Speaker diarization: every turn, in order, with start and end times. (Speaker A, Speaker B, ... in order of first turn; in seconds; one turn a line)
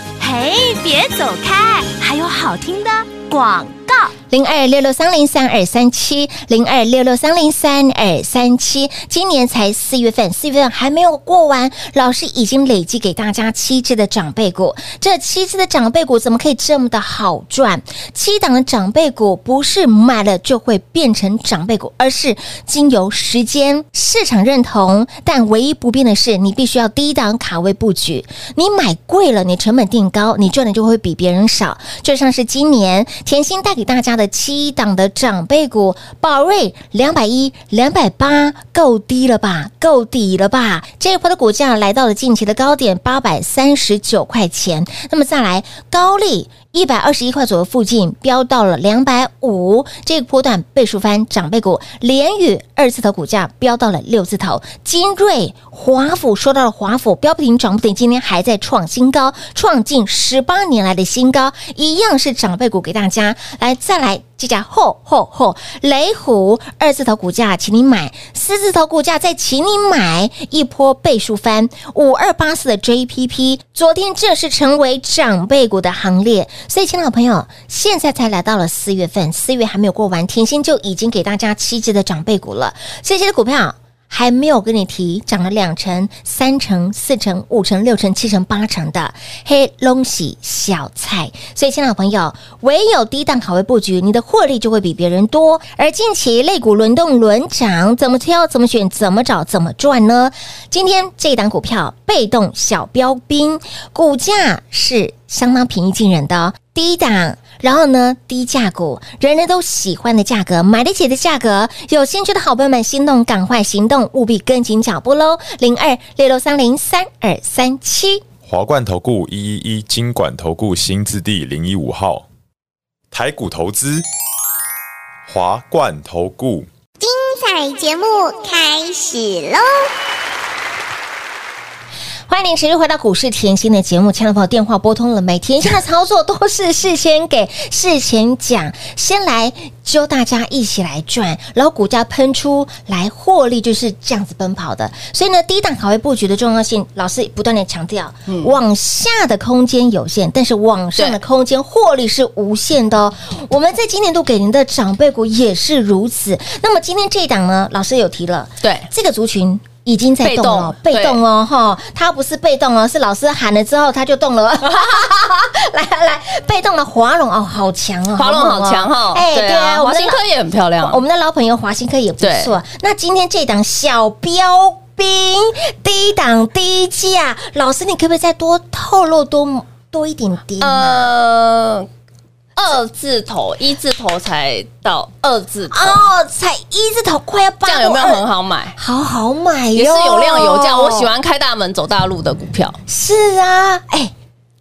Speaker A: 0.2-4.1
Speaker B: 4.3-118.2
Speaker C: 118.5-122.3
Speaker C: 123.1-124.0
Speaker C: 125.3-126.7
Speaker D: 127.0-129.9
Speaker B: 132.3-170.2
Speaker E: 148.3-148.5
Speaker E: 158.6-158.9
Speaker E: 160.2-161.2
Speaker E: 168.2-171.0
Speaker B: 170.8-181.1
Speaker E: 172.2-172.5
Speaker E: 180.6-181.9
Speaker E: 182.6-186.0
Speaker B: 185.7-188.2
Speaker E: 187.7-188.8
Speaker B: 188.8-191.1
Speaker E: 189.8-192.8
Speaker B: 192.9-194.1